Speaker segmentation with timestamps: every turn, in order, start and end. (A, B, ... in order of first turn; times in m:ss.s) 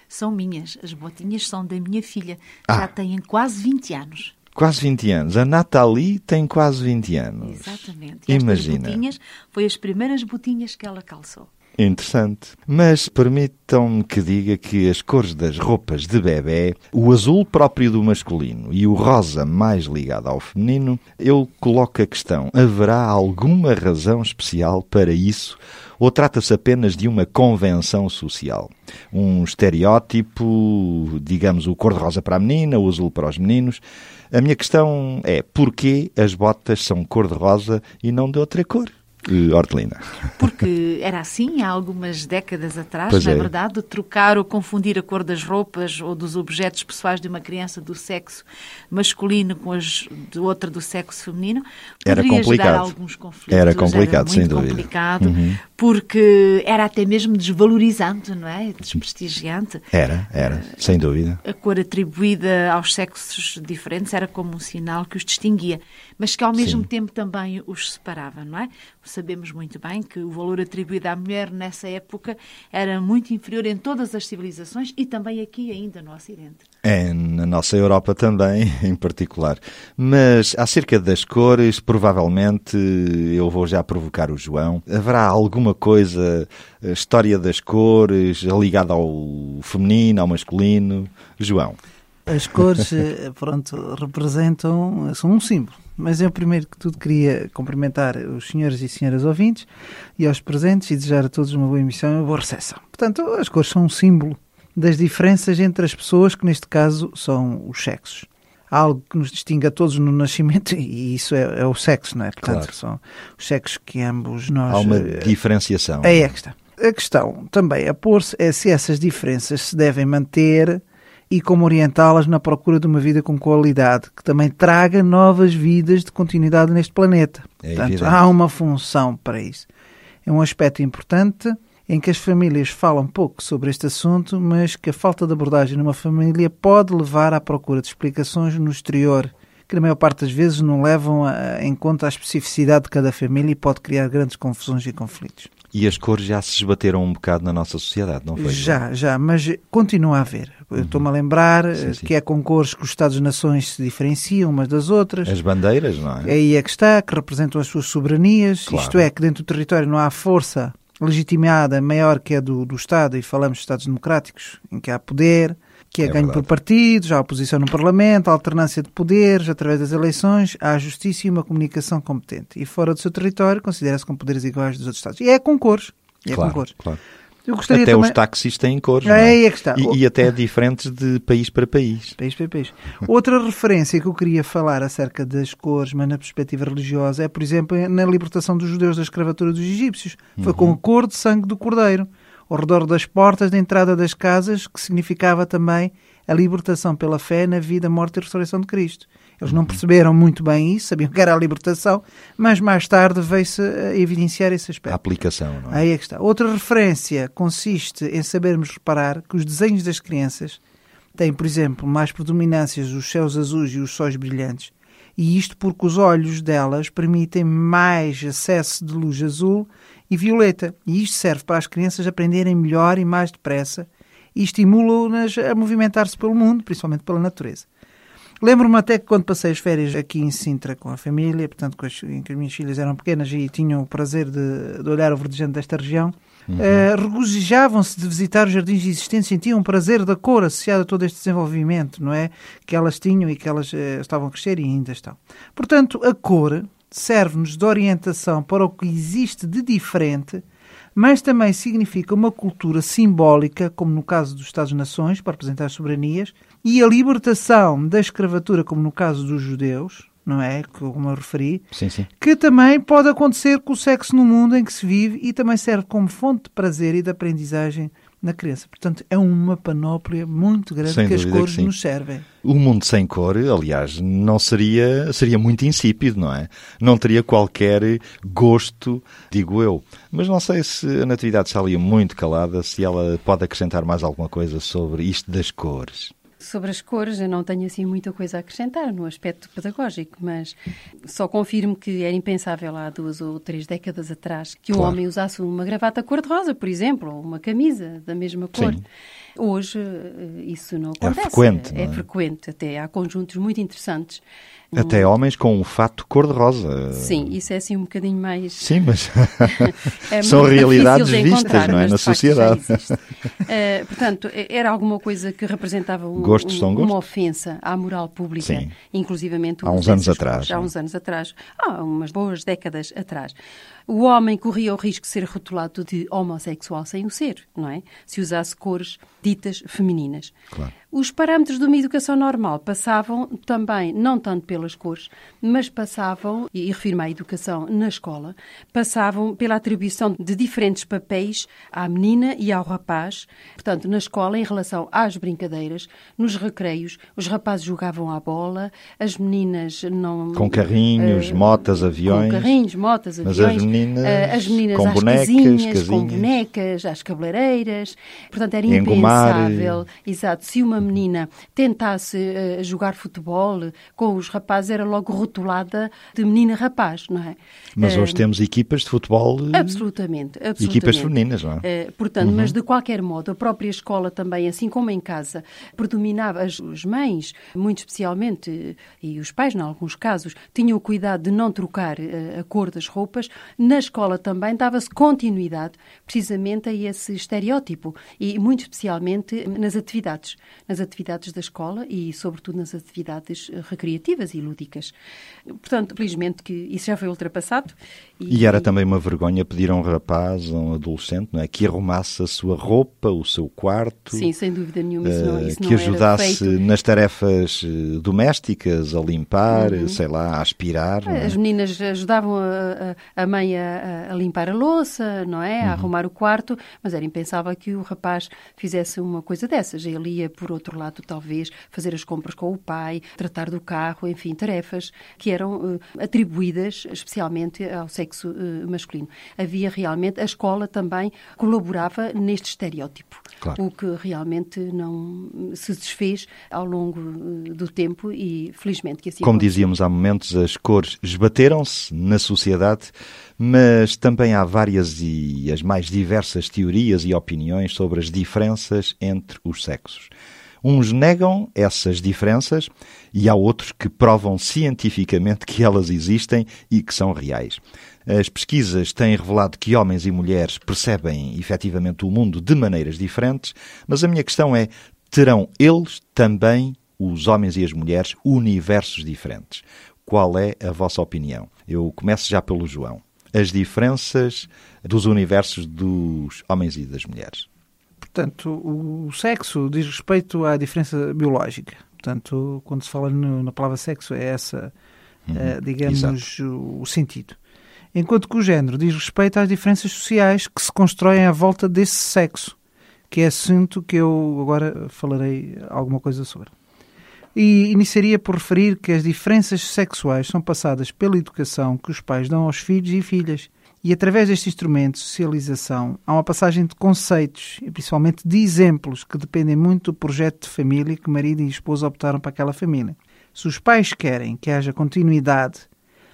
0:00.1-0:04.4 A
0:04.6-0:09.0 B
0:07.4-0:11.5 A
0:11.8-0:40.3 B
0:40.4-0:59.8 A
0:43.1-0:43.5 B
0:52.0-0:52.9 B
0:53.5-0:55.6 B
0:59.9-1:01.4 B
1:00.4-1:00.8 A
1:01.4-1:16.6 A
1:06.6-1:06.9 B
1:16.8-1:31.8 B
1:32.3-1:55.3 C
1:52.4-1:52.7 B
1:54.7-1:56.3 B
1:56.0-2:09.7 C
2:07.6-2:08.2 B
2:10.2-2:25.5 C
2:25.7-2:28.8 B
2:28.4-2:35.3 C
2:30.8-2:31.0 B
2:31.8-2:32.1 B
2:35.2-2:36.3 B
2:36.2-2:56.7 C
2:38.6-2:39.1 B
2:46.0-2:46.5 B
2:56.3-2:57.0 B
2:57.4-2:58.2 C
2:57.7-3:02.2 B
2:59.0-3:00.0 C
3:02.2-3:25.0 C
3:10.4-3:10.8 B
3:19.5-3:19.8 B
3:24.9-3:25.8 B
3:25.7-3:30.6 C
3:31.2-3:47.7 C
3:48.4-4:10.4 C
3:56.5-3:56.9 B
4:10.9-4:21.6 C
4:21.7-4:22.1 B
4:22.2-4:32.2 C
4:30.8-4:31.7 B
4:32.4-4:46.1 B
4:46.4-4:58.8 D
4:58.5-4:58.8 B
4:59.4-5:04.2 D
5:01.0-5:02.0 B
5:04.7-5:05.1 D
5:04.7-5:07.3 B
5:06.9-5:08.7 D
5:08.6-5:13.0 B
5:09.4-5:23.3 D
5:16.2-5:17.0 B
5:18.4-5:18.7 B
5:19.6-5:20.7 B
5:23.9-5:30.3 D
5:30.9-6:08.2 D
5:50.3-5:52.5 B
5:53.2-5:56.3 B
5:58.7-5:59.8 B
6:07.8-6:09.8 B
6:09.5-6:34.9 D
6:10.6-6:11.6 B
6:12.2-6:12.5 B
6:35.5-6:38.7 D
6:38.3-6:44.3 B
6:44.1-6:46.6 D
6:45.0-6:51.4 B
6:49.5-6:50.0 D
6:51.0-7:19.6 D
6:55.6-6:55.9 B
7:19.2-7:30.1 B
7:30.6-7:57.5 B
7:58.0-8:04.7 C
8:05.3-8:06.2 B
8:05.3-8:07.4 C
8:07.9-8:12.6 C
8:13.1-8:16.5 C
8:17.3-8:35.7 C